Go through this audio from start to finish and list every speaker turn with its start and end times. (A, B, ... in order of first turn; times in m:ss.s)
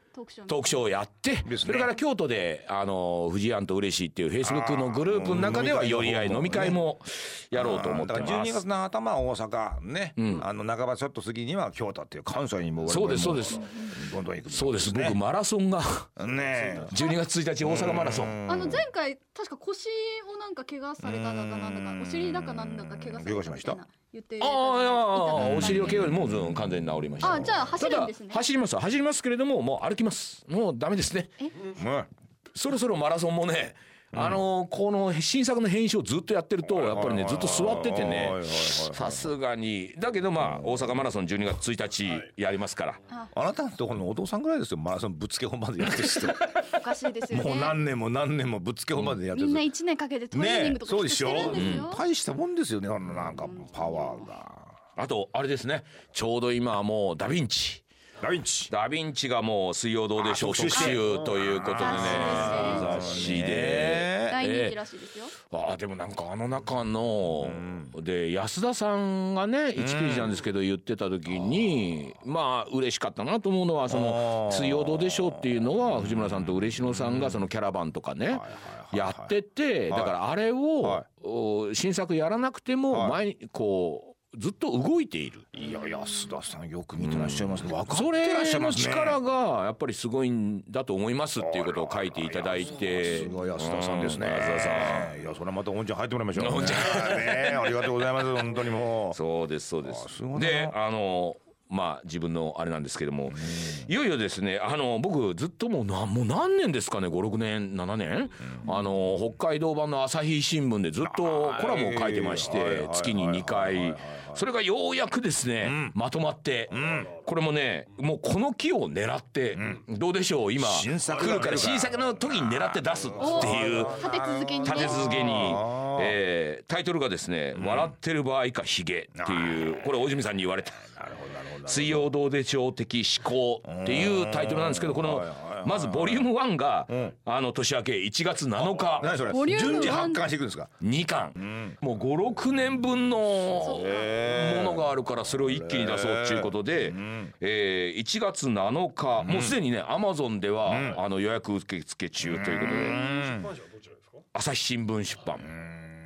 0:00.1-0:00.8 A
0:00.5-0:08.6 B
0:01.4-0:01.9 C
0:04.4-0:06.8 C
0:07.5-0:15.2 C
0:10.2-0:10.5 B
0:12.9-0:13.7 B
0:13.6-0:14.0 A
0:14.5-0:16.1 B
0:16.2-0:17.0 C
0:16.8-0:18.4 B
0:17.6-0:18.9 C
0:18.5-0:26.0 A
0:21.0-0:23.8 C
0:24.4-0:31.4 B
0:25.4-0:27.7 C
0:27.2-0:28.4 A
0:31.7-0:32.1 C
0:32.5-0:43.0 B
0:34.1-0:34.4 C
0:36.8-0:39.3 C
0:40.4-0:40.8 C
0:43.3-0:46.7 C
0:46.7-0:47.8 A
0:47.2-0:49.7 C
0:49.3-0:52.0 A
0:50.3-0:54.8 C
0:51.4-0:51.9 B
0:53.5-0:54.3 A
0:55.0-0:57.8 B
0:58.2-0:58.7 C
0:58.7-1:04.8 B
1:00.2-1:04.4 C
1:00.7-1:01.0 A
1:01.8-1:02.9 A
1:04.2-1:05.3 A
1:05.4-1:25.5 B
1:07.4-1:07.9 C
1:09.8-1:10.4 C
1:11.5-1:11.7 C
1:13.9-1:15.4 C
1:16.0-1:17.3 C
1:18.3-1:19.3 C
1:19.9-1:20.2 C
1:22.9-1:23.2 C
1:25.5-1:29.2 C
1:27.0-1:35.2 B
1:31.4-1:39.2 C
1:36.4-1:37.8 B
1:39.1-2:04.0 B
1:39.8-1:40.8 C
1:43.4-1:43.8 C
1:51.0-1:54.4 C
1:55.6-1:56.0 C
1:56.7-1:57.1 C
1:59.6-1:59.8 C
2:00.6-2:06.2 C
2:03.2-2:05.3 A
2:04.6-2:11.0 B
2:07.6-2:07.9 C
2:09.2-2:09.9 C
2:10.9-2:12.1 C
2:11.6-2:20.1 B
2:13.6-2:16.3 C
2:16.9-2:17.1 C
2:18.6-2:20.8 C
2:19.3-2:20.2 A
2:20.8-2:33.2 B
2:21.4-2:21.8 C
2:23.6-2:24.2 A
2:23.6-2:27.3 C
2:29.2-2:29.6 C
2:30.7-2:31.0 C
2:32.3-2:33.6 C
2:34.3-2:35.5 B